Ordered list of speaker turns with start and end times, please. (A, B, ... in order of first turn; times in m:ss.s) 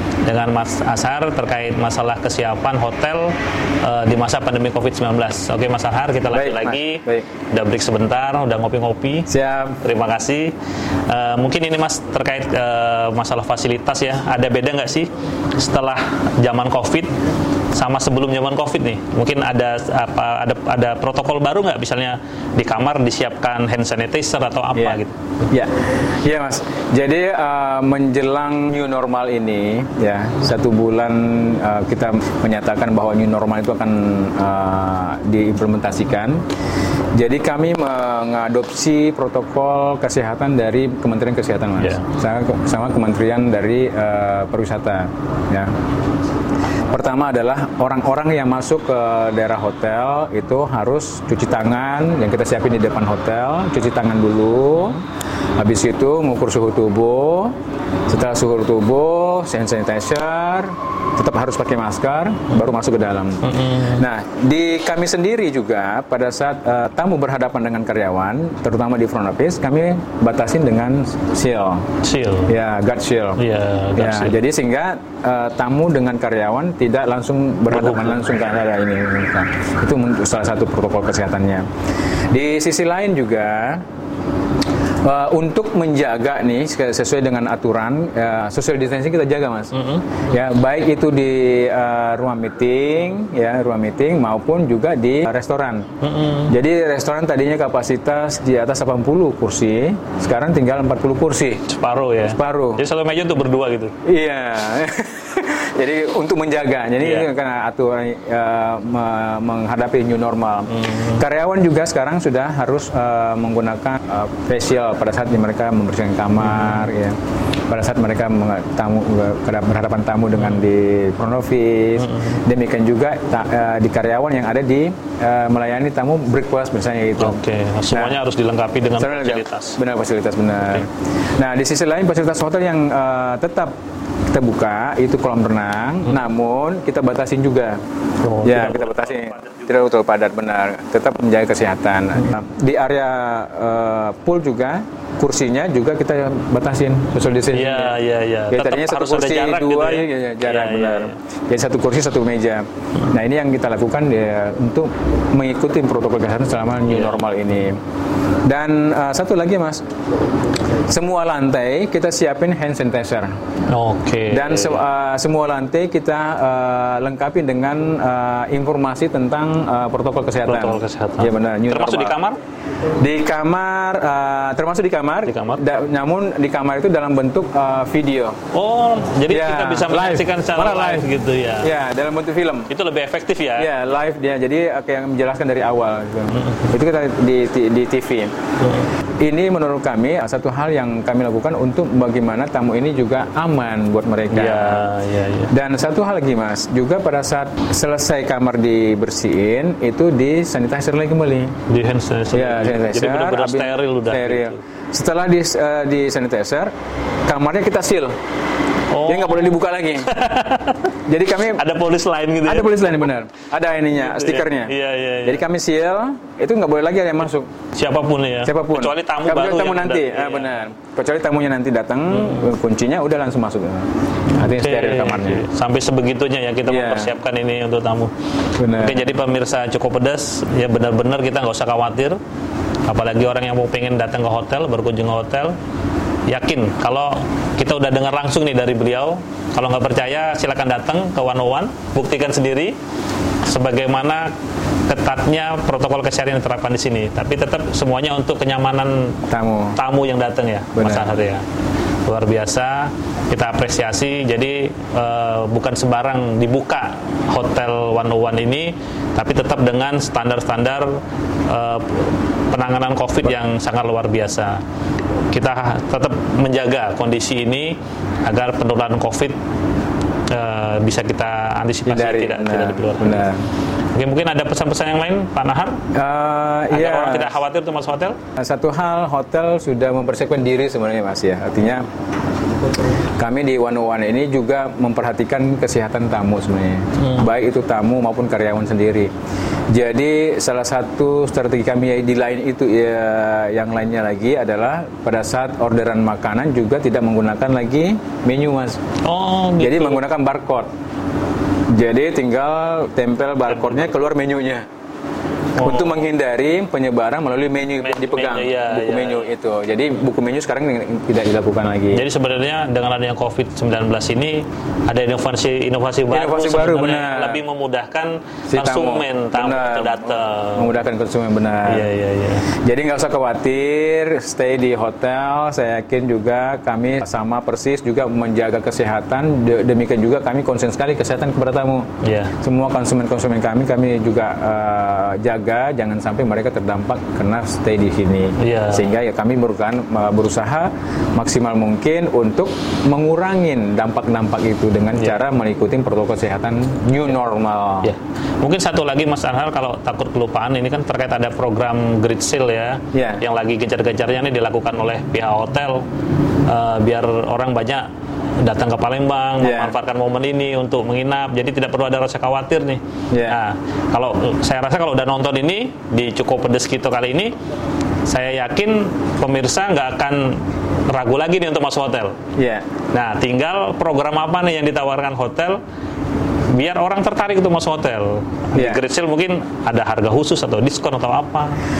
0:00.2-0:09.3 A
0:06.3-0:07.3 B
0:09.3-0:09.8 B
0:09.8-0:10.5 A
0:11.1-0:17.2 A
0:17.7-0:25.2 A
0:25.5-0:36.4 B
0:37.2-0:45.7 B
0:46.9-0:55.0 B
0:55.6-0:57.5 B
0:58.1-1:11.8 B
1:03.4-1:04.1 A
1:12.0-1:12.6 A
1:12.5-1:13.4 B
1:13.4-1:14.4 A
1:14.0-1:21.7 B
1:17.7-1:18.4 A
1:22.3-1:23.8 B
1:25.0-1:29.7 B
1:29.8-1:30.0 A
1:30.3-1:35.9 B
1:36.0-1:36.5 A
1:36.5-1:41.6 B
1:41.7-1:44.0 A
1:42.3-1:42.8 B
1:44.0-1:57.2 B
1:47.0-1:47.3 A
1:50.7-1:51.2 A
1:56.4-1:56.8 A
1:57.7-2:07.4 B
2:02.0-2:02.4 A
2:07.2-2:09.8 A
2:07.9-2:08.2 B
2:09.0-2:13.7 B
2:14.3-2:17.8 B
2:18.2-2:19.5 A
2:18.4-2:28.0 B
2:27.5-2:31.2 A
2:28.5-2:37.8 B
2:36.9-2:37.2 A
2:38.4-2:39.8 B
2:40.9-2:43.3 B
2:43.7-2:44.8 A
2:44.3-2:52.2 B
2:50.4-2:52.4 A
2:53.0-2:58.4 B
2:55.3-2:55.6 A
2:58.5-3:01.7 A
2:59.3-3:01.1 B
3:01.6-3:02.7 B
3:02.7-3:03.7 A
3:03.6-3:08.3 B
3:06.3-3:06.7 A
3:08.6-3:08.9 A
3:09.2-3:14.9 B
3:14.3-3:15.5 A
3:15.5-3:21.5 B
3:21.7-3:24.6 A
3:22.3-3:26.7 B
3:27.3-3:28.2 B
3:28.9-3:30.9 A
3:29.0-3:30.1 B
3:31.1-3:31.6 B
3:31.5-3:33.1 A
3:32.4-3:34.7 B
3:34.0-3:35.4 A
3:35.2-3:37.5 B
3:37.8-3:40.6 A
3:38.4-3:45.4 B
3:44.4-3:48.1 A
3:46.7-3:47.1 B
3:48.6-3:49.1 B
3:48.7-3:52.2 A
3:52.9-3:55.6 A
3:56.3-4:02.8 A
4:03.5-4:04.3 A
4:04.9-4:09.2 A
4:09.3-4:09.8 B
4:09.8-4:11.4 A
4:10.8-4:11.2 B
4:12.1-4:24.6 A
4:25.3-4:29.4 A
4:30.3-4:33.2 A
4:31.9-4:33.4 B
4:33.9-4:35.8 A
4:35.9-4:37.4 B
4:36.7-4:38.2 A
4:38.4-4:41.9 B
4:43.2-4:49.1 B
4:49.7-4:58.8 B
4:59.0-5:00.0 A
4:59.6-5:00.7 B
5:01.7-5:04.7 B
5:03.5-5:03.9 A
5:05.6-5:06.0 A
5:05.6-5:12.1 B
5:07.8-5:09.3 A
5:11.9-5:20.7 A
5:16.1-5:17.4 B
5:18.5-5:21.9 B
5:21.6-5:22.5 A
5:22.6-5:31.9 B
5:32.0-5:32.4 A
5:32.4-5:47.9 B
5:38.4-5:38.9 A
5:47.8-5:55.9 A
5:52.9-5:53.2 B
5:56.5-6:07.4 A
5:59.4-5:59.8 B
6:03.1-6:03.4 B
6:08.1-6:12.2 A
6:12.4-6:12.6 B
6:12.9-6:15.6 A
6:16.5-6:21.6 A
6:18.6-6:18.8 B